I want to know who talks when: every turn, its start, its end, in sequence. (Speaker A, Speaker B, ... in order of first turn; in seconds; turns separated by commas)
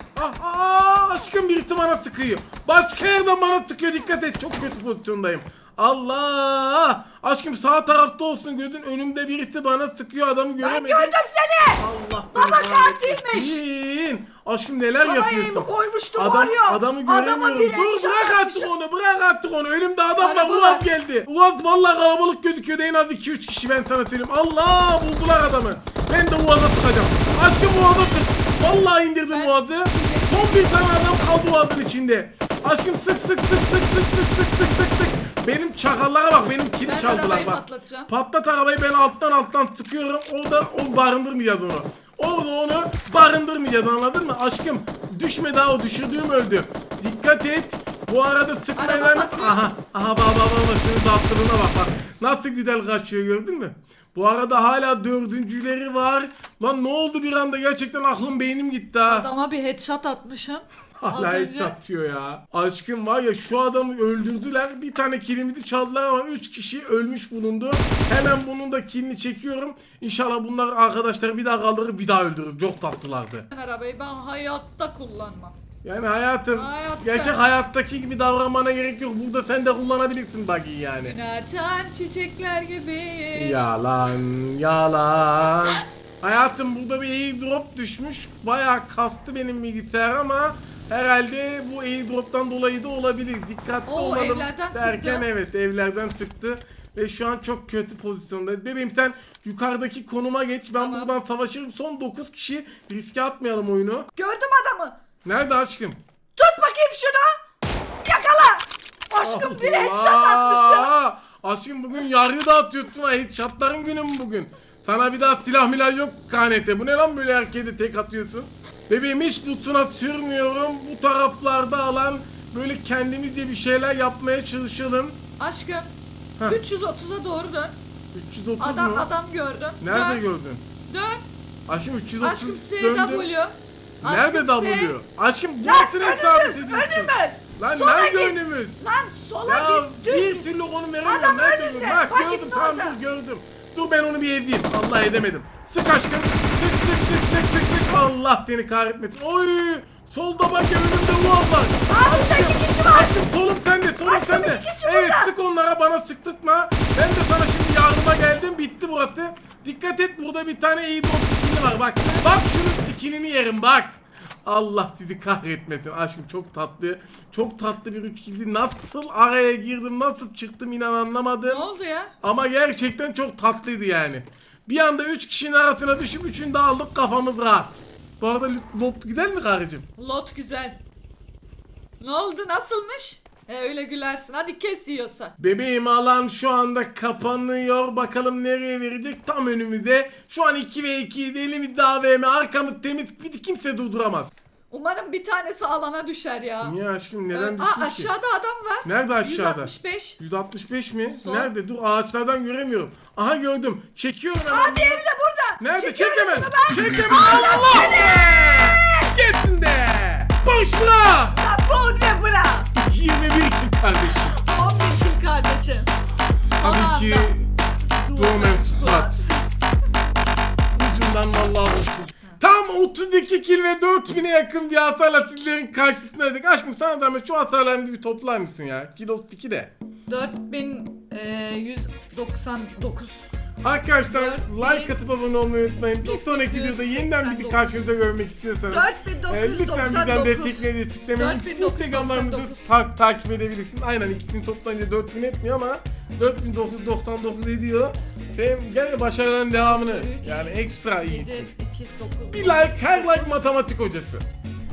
Speaker A: 0.2-11.2, Speaker B: 10.6-13.6, Speaker A: 11.8-59.3, Speaker B: 14.9-18.7, Speaker B: 20.2-20.9, Speaker B: 29.3-31.3, Speaker B: 36.9-38.1, Speaker B: 48.8-49.6, Speaker B: 59.1-61.8, Speaker A: 61.0-73.5, Speaker B: 73.5-75.6, Speaker A: 75.8-81.2, Speaker B: 76.5-77.5, Speaker B: 81.0-83.6, Speaker A: 83.3-104.1, Speaker B: 93.9-95.3, Speaker B: 100.8-101.1, Speaker B: 104.1-105.0, Speaker A: 105.2-106.0, Speaker B: 106.4-107.4, Speaker B: 108.0-110.9, Speaker A: 109.2-125.2, Speaker B: 125.4-125.9, Speaker B: 126.4-127.8, Speaker A: 128.1-129.1, Speaker B: 128.6-130.2, Speaker A: 129.8-130.6, Speaker B: 130.9-131.2, Speaker A: 131.7-133.3, Speaker B: 132.2-135.0, Speaker A: 134.0-138.8, Speaker B: 135.6-140.5, Speaker A: 139.4-171.6, Speaker B: 141.0-143.0, Speaker B: 151.9-153.2, Speaker B: 154.1-155.3, Speaker B: 171.5-172.1, Speaker A: 172.2-179.9, Speaker B: 180.0-180.8, Speaker B: 182.0-185.3, Speaker A: 185.4-194.3, Speaker B: 194.7-196.8, Speaker A: 196.6-198.1, Speaker B: 197.3-200.2, Speaker A: 198.8-205.0, Speaker B: 201.1-201.5, Speaker B: 204.5-209.2, Speaker A: 205.6-211.4, Speaker B: 211.3-212.7, Speaker A: 212.8-214.4, Speaker B: 214.2-215.9, Speaker A: 216.5-217.5, Speaker B: 216.6-217.3, Speaker B: 217.9-219.4, Speaker A: 218.2-219.3, Speaker A: 220.7-229.7, Speaker B: 230.1-233.2, Speaker A: 233.6-251.5, Speaker B: 234.1-234.9, Speaker B: 236.0-237.7, Speaker B: 238.7-242.7, Speaker B: 249.5-253.4, Speaker A: 252.3-254.2